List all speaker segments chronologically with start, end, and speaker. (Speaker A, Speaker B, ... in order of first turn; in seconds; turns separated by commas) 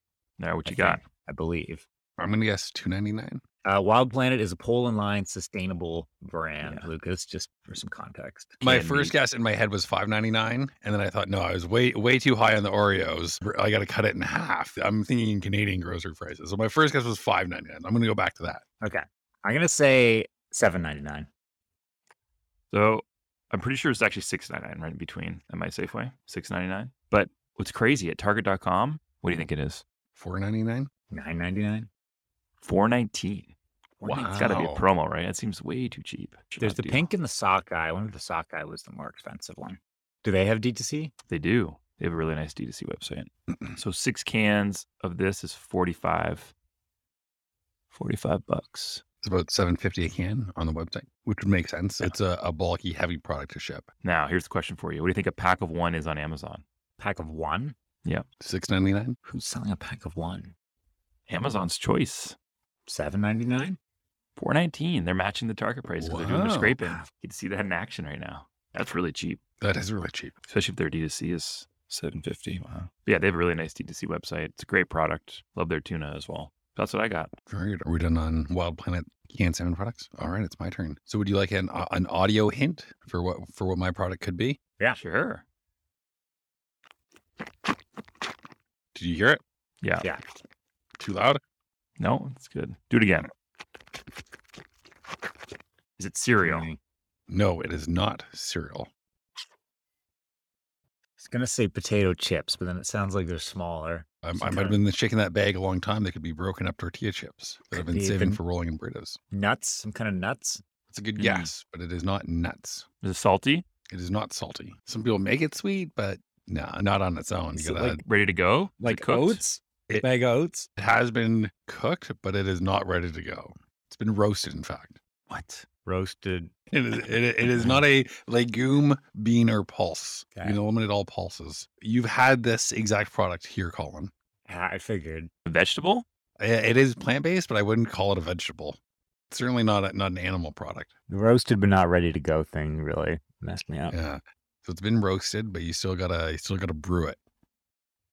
Speaker A: 0.4-1.0, Speaker B: 0.7-1.9, Speaker C: 2.2-3.4, Speaker B: 3.6-8.6, Speaker A: 6.6-6.9, Speaker A: 8.6-9.2, Speaker C: 8.6-18.6, Speaker B: 18.8-21.3, Speaker A: 22.7-29.8, Speaker C: 30.1-30.9, Speaker B: 31.1-31.9, Speaker A: 32.6-33.5, Speaker B: 34.0-34.3, Speaker C: 34.0-34.8, Speaker A: 34.1-37.1, Speaker B: 36.6-41.1, Speaker A: 41.3-46.5, Speaker A: 47.9-49.0, Speaker C: 49.2-53.9, Speaker A: 54.0-56.6, Speaker B: 57.0-57.8, Speaker C: 58.4-59.2, Speaker B: 59.3-60.5, Speaker A: 61.3-62.4, Speaker B: 62.9-63.8, Speaker A: 64.4-69.4, Speaker C: 66.0-66.8, Speaker C: 69.6-70.3, Speaker A: 70.5-77.3, Speaker C: 77.5-84.6, Speaker A: 84.9-85.4, Speaker C: 89.0-89.4, Speaker A: 89.8-90.1, Speaker C: 91.0-91.4, Speaker A: 92.0-93.3, Speaker A: 96.0-96.7, Speaker B: 96.4-96.8, Speaker C: 97.3-98.9, Speaker B: 101.2-104.8, Speaker C: 104.2-109.2, Speaker B: 107.7-108.4, Speaker B: 109.3-110.6, Speaker C: 110.9-112.9, Speaker A: 111.2-111.5, Speaker A: 113.0-113.7, Speaker C: 113.9-118.0, Speaker B: 117.6-118.0, Speaker A: 118.0-119.4, Speaker B: 118.8-120.7, Speaker C: 120.8-125.0, Speaker B: 125.3-126.5, Speaker C: 126.7-134.1, Speaker B: 127.5-127.8, Speaker B: 134.5-135.3, Speaker A: 135.5-136.1, Speaker C: 136.4-138.8, Speaker C: 139.3-140.9, Speaker B: 141.1-144.0, Speaker C: 143.9-147.2